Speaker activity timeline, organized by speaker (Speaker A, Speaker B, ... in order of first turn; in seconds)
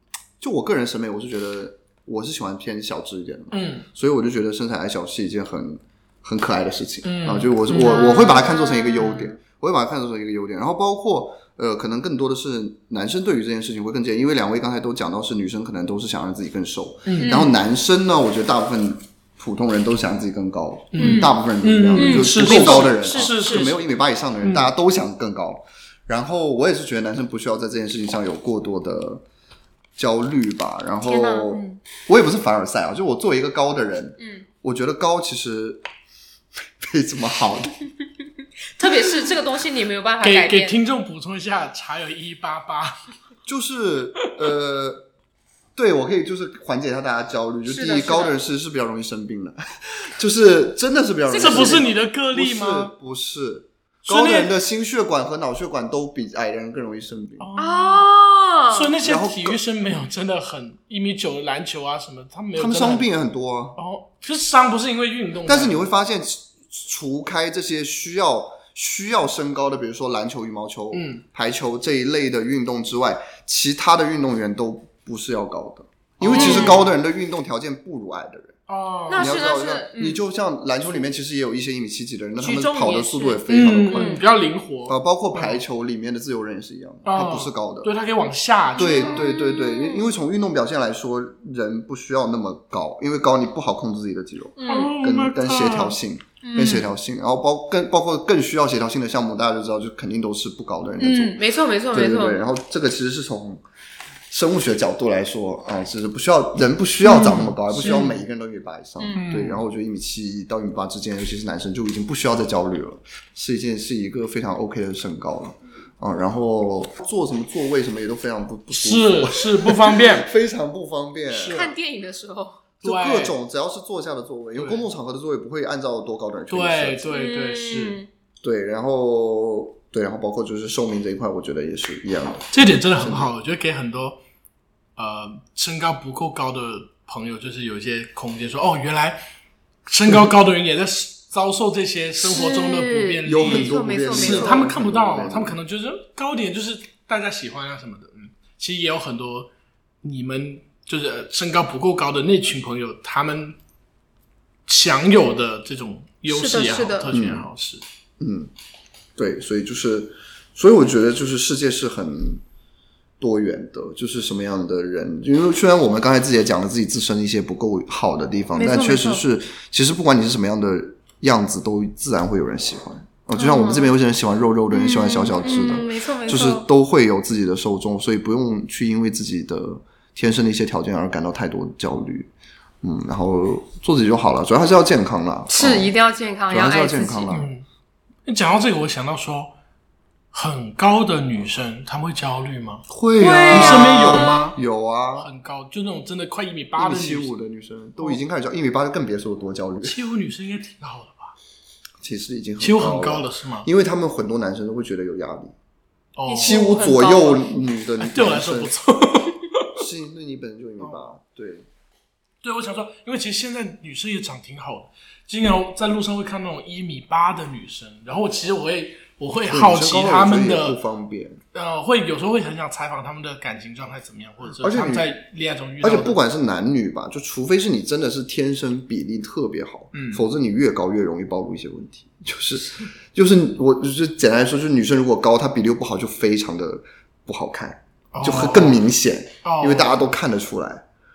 Speaker A: 0.4-29.2, 29.9-35.8, 36.8-37.7, 43.5-45.0, 45.7-57.5, 59.0-59.6, 62.5-63.8, 65.5-78.5, 79.2-84.2, 84.8-87.9, 88.8-101.4, 101.9-103.6, 104.3-121.7, 122.8-127.2, 128.4-133.3, 143.2-145.6, 157.1-157.5, 158.2-158.5, 159.2-162.4, 163.2-182.3, 182.8-185.9, 186.5-187.5, 192.9-195.3, 196.8-200.0, 202.0-205.5, 206.4-208.7, 209.8-211.7, 219.5-221.4, 224.6-225.1, 225.8-240.8
Speaker B: 3.5-3.9, 7.0-8.3, 8.9-9.3, 17.1-17.5, 20.9-23.8, 24.4-24.7, 40.2-43.1, 51.3-52.9, 54.0-54.5, 57.4-58.1, 58.7-63.1, 63.8-65.8, 70.9-71.2, 76.2-76.9, 78.7-79.3, 83.5-85.6, 87.0-89.2, 94.7-96.0, 107.0-108.0, 109.1-109.6, 118.7-120.3, 121.3-121.7, 122.8-123.3, 124.5-124.8, 126.5-128.0, 132.5-134.2, 134.9-139.2, 139.8-149.5, 150.0-153.6, 154.7-157.8, 187.3-187.6, 188.2-189.5, 190.3-192.9, 193.4-194.6, 195.2-197.4, 199.8-201.3, 202.6-203.7, 206.2-206.6, 208.0-209.8, 210.8-211.1, 212.4-220.8, 221.5-226.2, 229.9-230.2, 238.1-238.8, 239.4-240.1
Speaker C: 7.7-9.1, 17.2-17.5, 21.0-21.3, 21.9-23.7, 31.0-31.8, 34.2-34.5, 38.8-40.8, 47.6-48.4, 51.3-51.9, 57.6-58.9, 76.3-76.8, 79.1-80.2, 82.4-84.2, 88.8-90.1, 94.6-94.9, 96.4-96.9, 101.0-102.4, 107.8-108.2, 109.0-109.3, 121.5-122.7, 127.1-128.1, 142.2-144.7, 156.3-157.1, 168.5-169.2, 173.3-173.9, 174.7-176.7, 185.5-187.3, 193.2-194.4, 206.3-207.7